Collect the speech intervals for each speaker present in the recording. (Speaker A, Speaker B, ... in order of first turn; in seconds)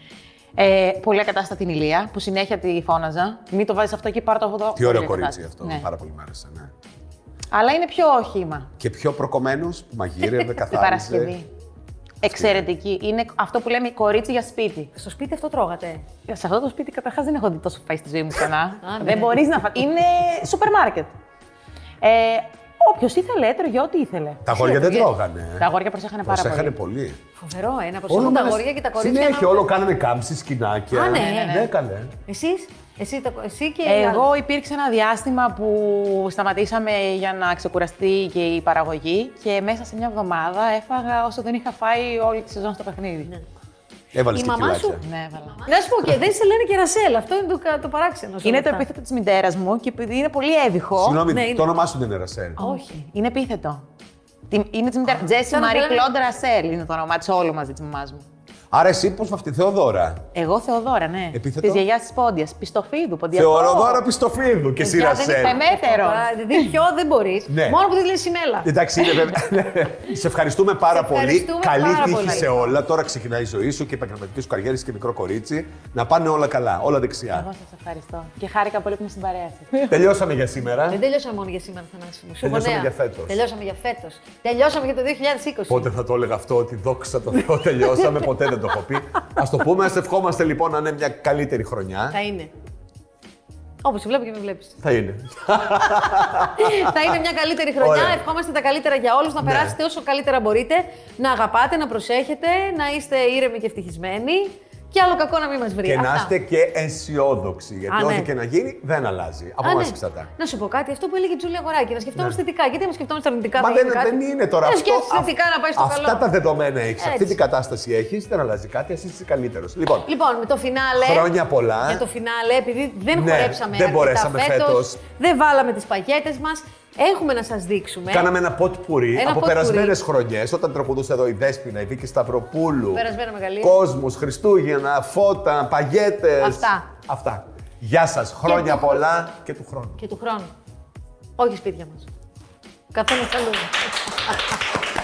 Speaker A: 0.6-5.9, 7.5-8.7, 10.2-11.5, 12.2-14.9, 16.3-21.1, 22.0-25.1, 25.6-26.7, 31.0-31.7, 33.9-43.3, 45.0-45.9, 48.4-51.2, 52.6-53.8, 54.5-58.2, 60.3-64.1, 65.2-66.7, 71.8-72.7, 77.3-80.0
Speaker B: 4.8-6.7, 8.8-11.3, 12.2-12.6, 24.4-25.7, 26.3-27.2, 28.1-32.1, 44.1-45.0, 51.0-52.6, 58.7-60.2, 61.3-61.8, 63.3-65.6, 67.5-67.8, 68.6-77.5, 79.9-81.0, 82.4-83.4, 85.7-92.2, 94.8-97.0, 97.8-98.3, 99.4-99.8, 105.8-110.3, 112.2-112.4, 113.6-120.1, 121.0-122.0, 123.1-125.0, 128.1-133.1, 133.6-140.0
Speaker C: 14.9-16.1, 18.8-19.4, 24.5-25.1, 27.4-29.6, 30.9-31.7, 32.3-34.3, 44.3-48.9, 51.3-51.7, 55.1-56.1, 64.8-68.7, 70.9-72.6, 80.9-85.9, 92.1-92.5, 93.8-94.8, 95.9-106.3, 107.9-108.3, 109.6-116.3, 117.0-117.4, 120.1-121.3, 121.8-128.3, 129.1-130.0, 132.9-133.8, 136.4-136.9, 138.4-139.0, 140.0-140.5, 141.4-142.1, 142.9-144.4